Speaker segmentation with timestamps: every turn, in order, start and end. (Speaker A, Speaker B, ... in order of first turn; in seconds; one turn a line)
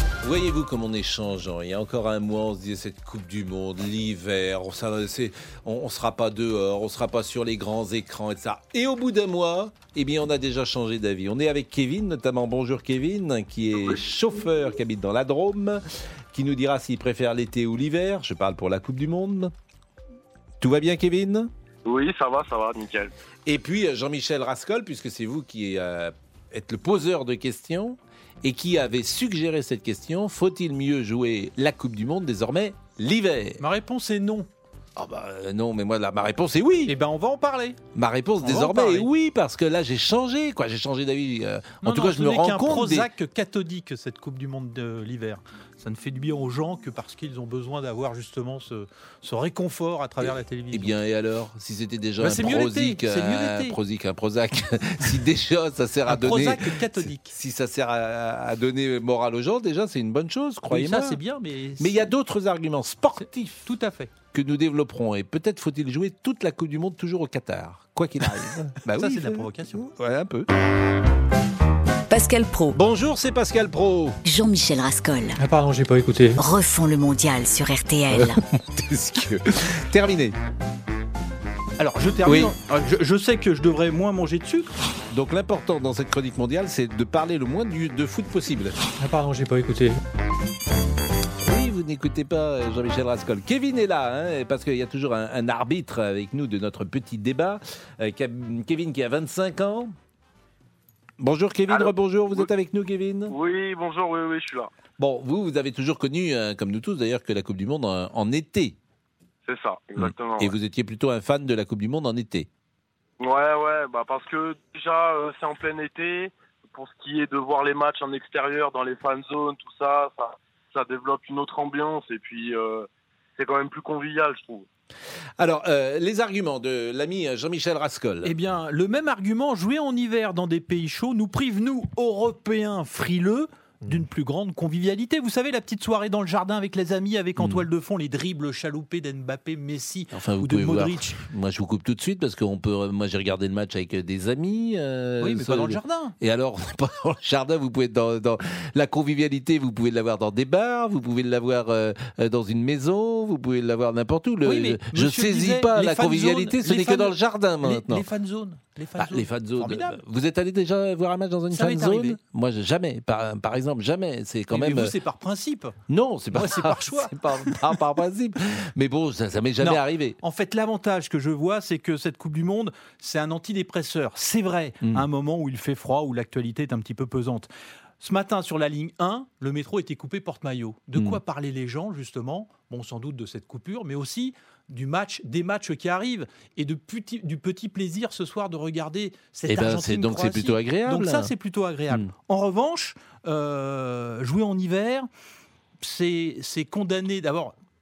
Speaker A: 0.2-15.8
Speaker A: 16.3-19.5
Speaker A: 20.6-21.5
Speaker B: 21.8-23.1
Speaker A: 23.4-33.6
Speaker C: 33.6-34.5
Speaker A: 35.0-37.0
Speaker C: 36.9-37.8
Speaker A: 37.9-43.1
Speaker C: 38.4-39.1
Speaker C: 41.8-50.9
Speaker A: 50.2-61.2
Speaker C: 52.2-53.8
Speaker C: 56.0-57.3
Speaker C: 60.7-62.0
Speaker A: 61.8-63.7
Speaker C: 63.6-64.1
Speaker A: 64.3-70.5
Speaker C: 68.9-69.8
Speaker D: 72.1-72.8
Speaker A: 72.7-74.2
Speaker D: 74.2-75.4
Speaker C: 75.4-76.4
Speaker D: 76.4-78.4
Speaker A: 78.1-80.4
Speaker C: 81.8-84.7
Speaker A: 82.2-82.5
Speaker A: 85.1-88.8
Speaker C: 89.0-90.0
Speaker A: 91.4-99.9
Speaker A: 101.2-103.3
Speaker B: 101.7-102.5
Speaker B: 103.3-104.7
Speaker A: 105.0-108.8
Speaker B: 109.5-110.5
Speaker A: 110.0-112.5
Speaker B: 113.2-124.7
Speaker A: 125.4-128.3
Speaker C: 128.2-141.2
Speaker A: 137.4-137.7
Speaker A: 140.1-158.1
Speaker C: 145.2-146.1
Speaker C: 154.4-160.0
Speaker A: 159.0-164.9
Speaker C: 161.5-162.2
Speaker C: 164.5-165.8
Speaker A: 165.9-170.2
Speaker C: 166.3-167.6
Speaker C: 169.6-177.5
Speaker C: 178.0-195.1
Speaker A: 189.5-191.3
Speaker C: 195.8-197.5